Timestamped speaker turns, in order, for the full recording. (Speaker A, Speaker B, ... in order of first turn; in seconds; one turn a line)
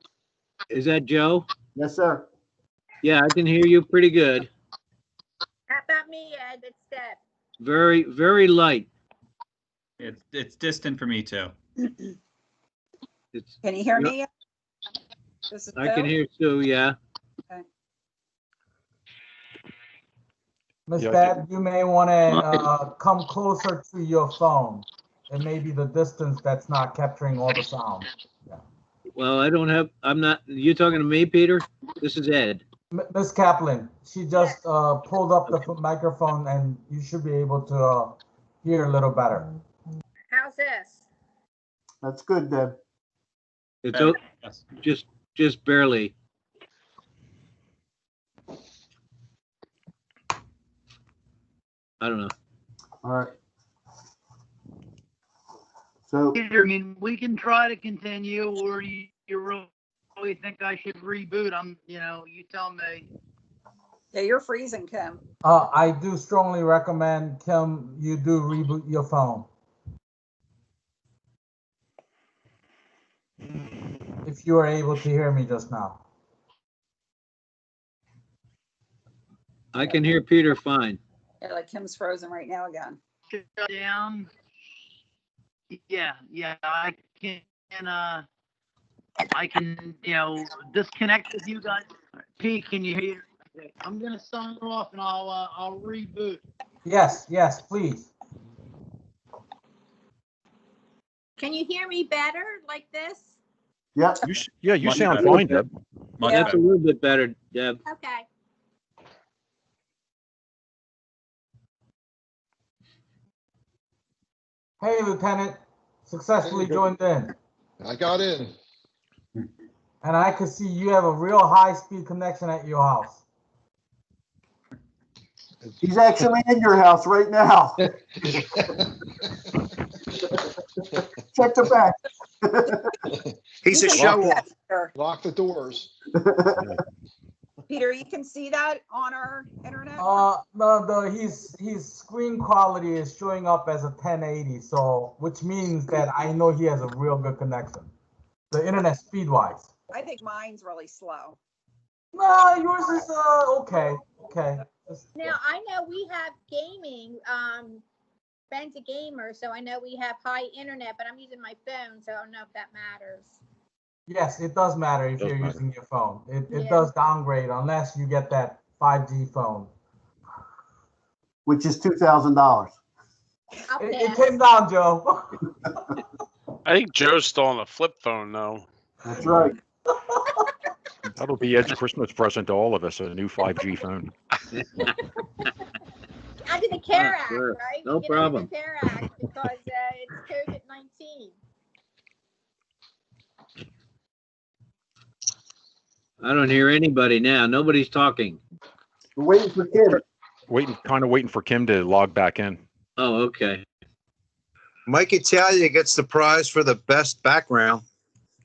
Speaker A: 0.7-1.4
Speaker B: 1.8-2.2
Speaker A: 3.0-4.5
Speaker C: 5.7-7.2
Speaker A: 7.6-8.9
Speaker D: 10.0-11.5
Speaker A: 13.3-14.1
Speaker E: 13.6-14.3
Speaker E: 15.5-16.1
Speaker A: 15.7-16.9
Speaker F: 20.9-28.6
Speaker G: 21.0-21.3
Speaker A: 29.1-32.6
Speaker F: 32.9-39.5
Speaker C: 40.3-41.0
Speaker B: 42.0-42.8
Speaker A: 43.8-44.2
Speaker D: 43.9-44.6
Speaker A: 44.8-46.1
Speaker A: 52.0-52.3
Speaker B: 53.0-53.3
Speaker B: 56.1-56.4
Speaker H: 56.3-59.7
Speaker H: 60.2-63.1
Speaker E: 64.1-65.2
Speaker F: 65.4-69.5
Speaker F: 74.2-76.0
Speaker A: 79.7-81.0
Speaker E: 81.4-83.0
Speaker H: 83.3-84.3
Speaker H: 85.7-88.2
Speaker H: 89.3-91.8
Speaker H: 92.4-96.4
Speaker F: 96.8-98.1
Speaker C: 101.4-103.3
Speaker G: 104.2-105.7
Speaker D: 104.8-105.5
Speaker D: 106.2-106.5
Speaker E: 106.2-106.6
Speaker A: 106.3-107.8
Speaker C: 107.8-108.2
Speaker F: 114.8-117.3
Speaker I: 116.5-116.8
Speaker I: 117.8-118.5
Speaker F: 120.0-123.2
Speaker B: 125.8-128.3
Speaker B: 131.3-132.9
Speaker J: 133.6-134.4
Speaker E: 133.6-134.9
Speaker I: 134.9-135.9
Speaker B: 136.1-136.7
Speaker E: 137.7-140.2
Speaker F: 140.0-147.9
Speaker F: 148.5-149.7
Speaker E: 149.9-151.4
Speaker F: 152.1-155.4
Speaker C: 155.2-157.8
Speaker C: 158.5-163.3
Speaker F: 164.1-169.7
Speaker G: 165.2-165.6
Speaker C: 166.5-166.9
Speaker B: 171.4-172.7
Speaker C: 173.7-174.4
Speaker F: 173.8-175.4
Speaker K: 176.6-178.7
Speaker B: 179.0-179.6
Speaker G: 181.2-184.1
Speaker A: 184.5-184.9
Speaker C: 186.4-191.3
Speaker A: 186.9-188.5
Speaker A: 196.2-198.4
Speaker B: 199.2-200.0
Speaker G: 200.5-202.6
Speaker A: 203.0-203.6
Speaker J: 204.9-207.8